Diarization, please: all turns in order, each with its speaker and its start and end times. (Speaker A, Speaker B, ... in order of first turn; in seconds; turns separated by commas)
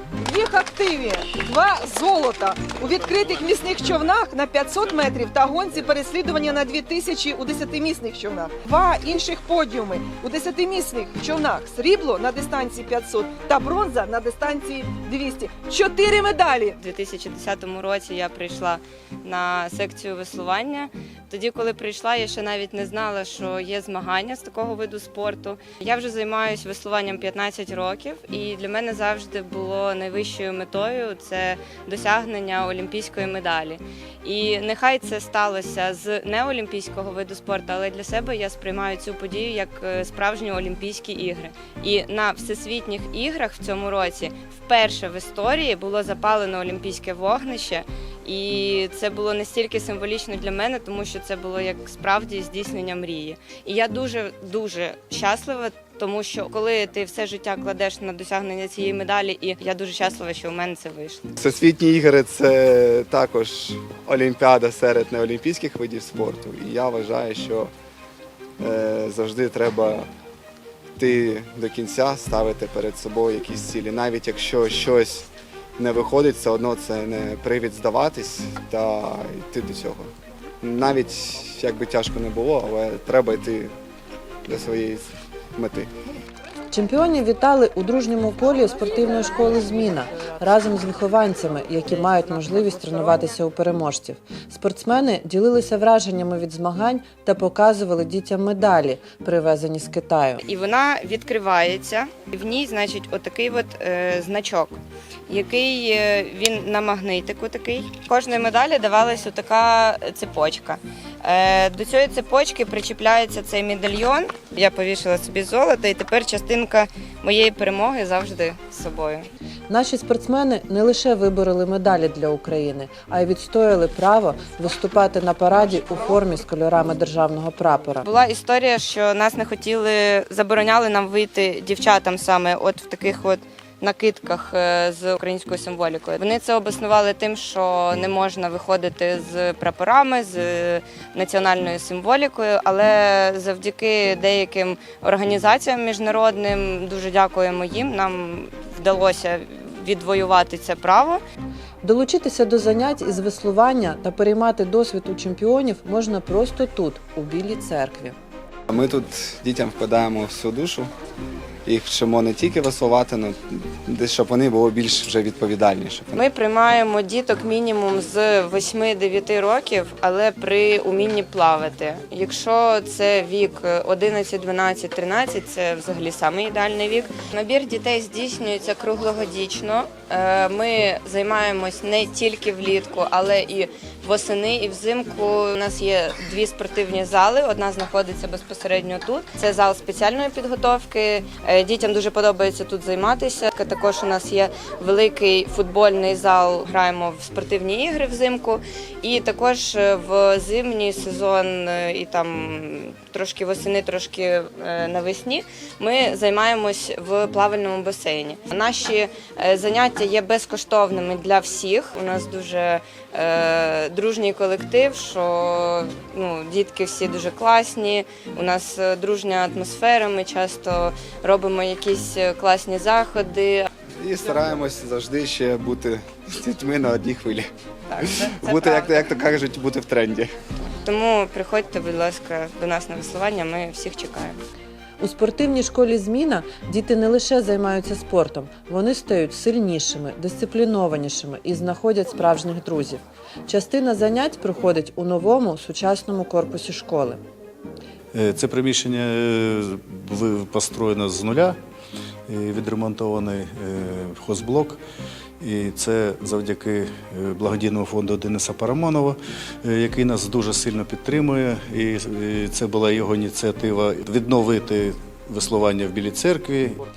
Speaker A: 0.2-16.8, Speaker B: 16.8-61.2, Speaker C: 61.4-67.7, Speaker C: 68.6-70.1, Speaker C: 71.0-80.1, Speaker C: 80.6-83.7, Speaker C: 84.5-85.9, Speaker D: 86.7-100.4, Speaker B: 100.5-104.8, Speaker B: 105.3-119.3, Speaker D: 119.7-128.1, Speaker B: 128.0-151.2, Speaker D: 151.8-158.2, Speaker C: 158.7-160.9, Speaker C: 161.7-166.2, Speaker B: 166.1-223.7, Speaker C: 224.0-227.5, Speaker B: 227.9-229.1, Speaker C: 228.0-230.3, Speaker B: 230.8-234.4, Speaker D: 235.0-247.2, Speaker E: 248.1-251.6, Speaker E: 252.3-254.8, Speaker E: 255.4-266.8